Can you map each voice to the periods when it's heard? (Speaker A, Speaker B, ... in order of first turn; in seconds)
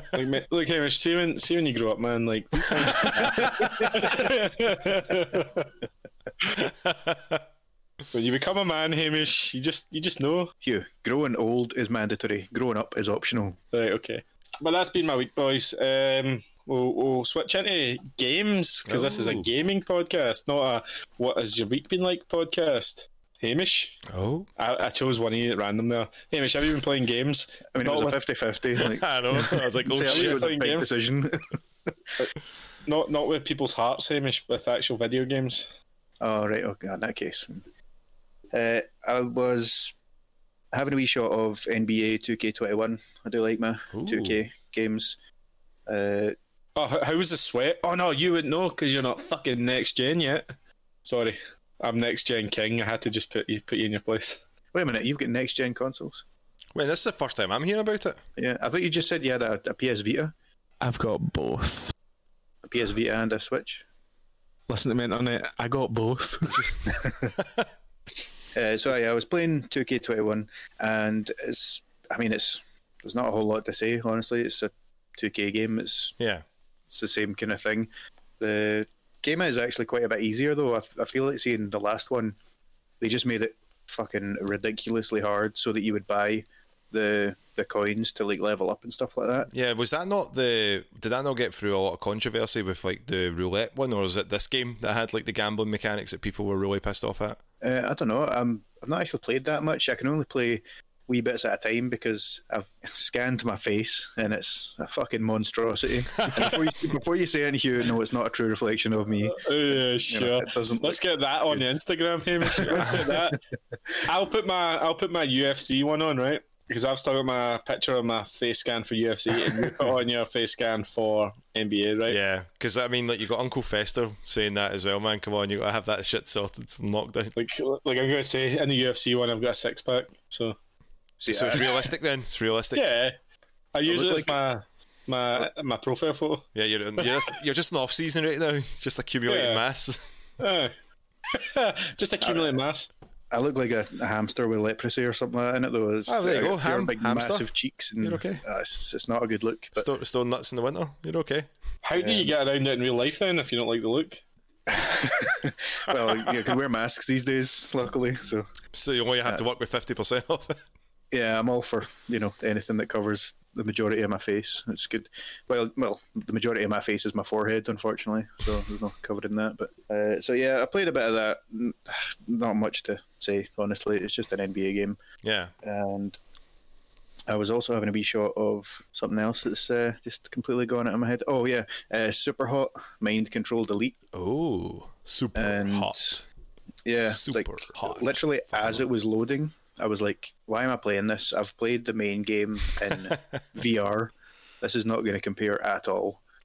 Speaker A: 0.1-5.7, 6.4-6.7, 8.1-10.5, 13.7-24.0, 24.6-28.2, 30.0-30.9, 32.8-35.7, 46.8-50.5, 51.0-54.4, 60.8-61.9, 64.7-66.7, 109.2-113.4, 114.0-122.2, 127.3-130.6, 132.7-133.2, 133.7-136.4, 137.0-137.3, 139.3-139.6, 140.4-140.7, 141.3-142.9, 151.8-154.2
Speaker B: 6.6-7.4, 18.9-19.5, 24.1-24.5, 28.8-30.5, 43.9-44.4, 56.7-58.2, 66.5-67.6, 76.2-76.4, 89.5-97.4, 106.2-106.6, 122.1-127.3, 131.2-132.9, 136.5-140.1, 146.1-147.5, 148.0-148.4, 149.8-151.5, 158.7-160.6, 175.2-175.5, 184.1-186.2, 187.0-188.8
Speaker C: 10.6-13.6, 27.7-31.6, 36.2-37.6, 38.5-39.9, 40.7-45.2, 45.9-46.4, 54.7-56.2, 58.4-60.3, 62.6-63.8, 66.9-67.3, 68.5-76.2, 76.9-82.3, 83.0-89.5, 97.6-111.7, 112.4-113.3, 119.5-119.9, 131.2-131.9, 133.8-134.3, 142.2-142.6, 143.3-149.9, 152.0-152.3, 154.7-158.5, 161.1-175.0, 175.6-176.2, 177.3-184.0, 185.3-186.1, 186.8-196.2